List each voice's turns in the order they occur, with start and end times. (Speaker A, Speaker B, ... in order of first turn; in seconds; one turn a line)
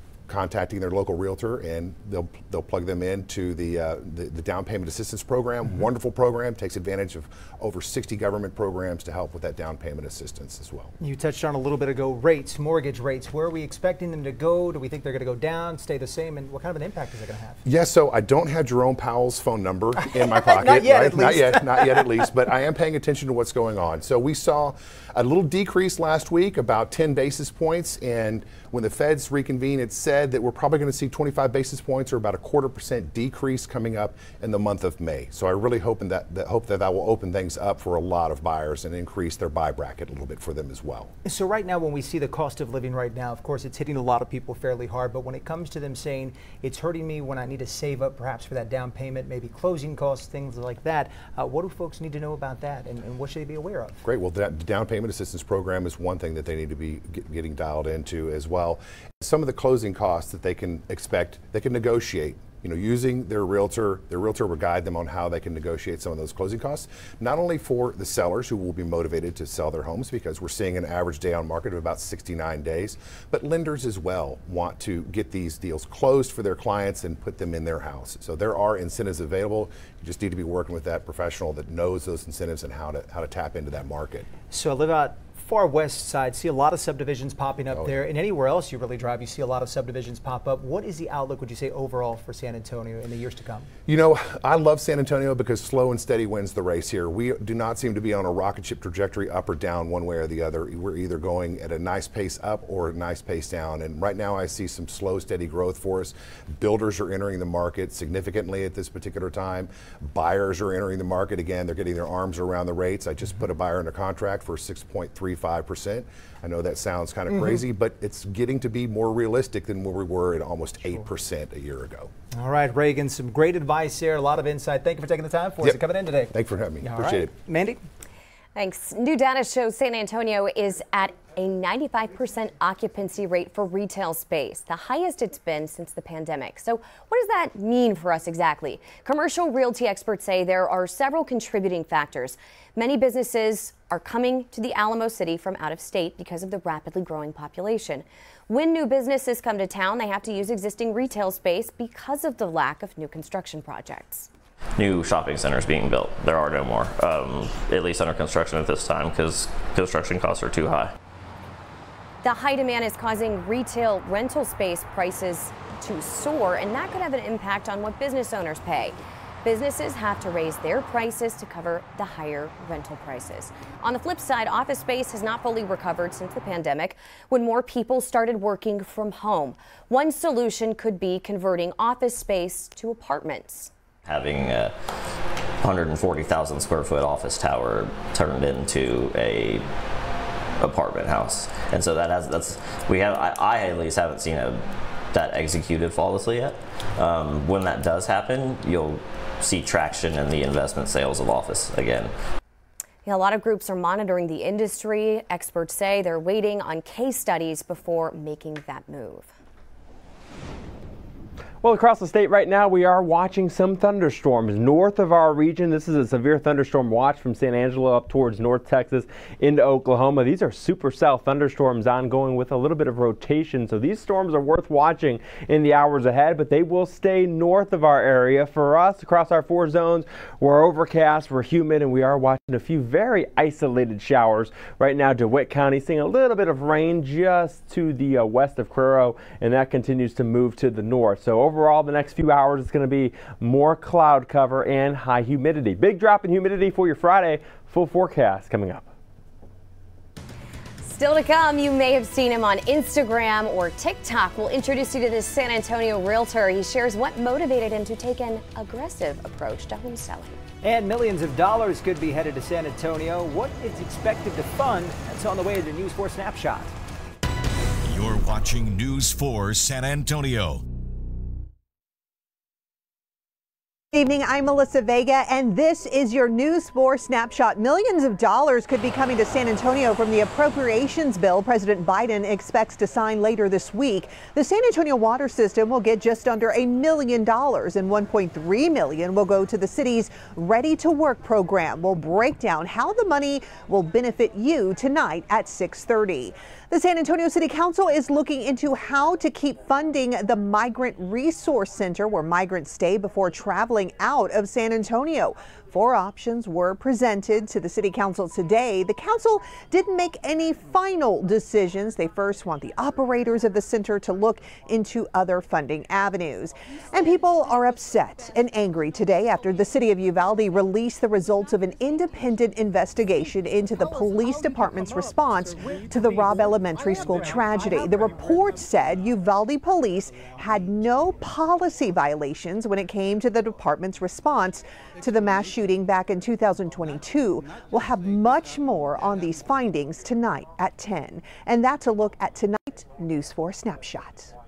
Speaker A: 0.3-10.9
Speaker B: 11.0-17.6
Speaker A: 17.7-41.1
Speaker B: 20.0-22.1
Speaker B: 41.2-54.0
Speaker A: 54.0-84.3
Speaker B: 84.5-93.7
Speaker A: 93.9-122.1
Speaker B: 122.3-127.8
Speaker A: 126.3-127.3
Speaker C: 128.6-154.3
Speaker D: 154.8-160.9
Speaker C: 162.2-183.7
Speaker D: 184.1-184.7
Speaker D: 185.6-189.6
Speaker D: 190.6-194.6
Speaker D: 195.1-202.1
Speaker C: 203.1-209.3
Speaker E: 211.6-248.9
Speaker C: 250.8-260.4
Speaker B: 260.6-266.8
Speaker F: 267.9-270.6
Speaker G: 273.9-344.3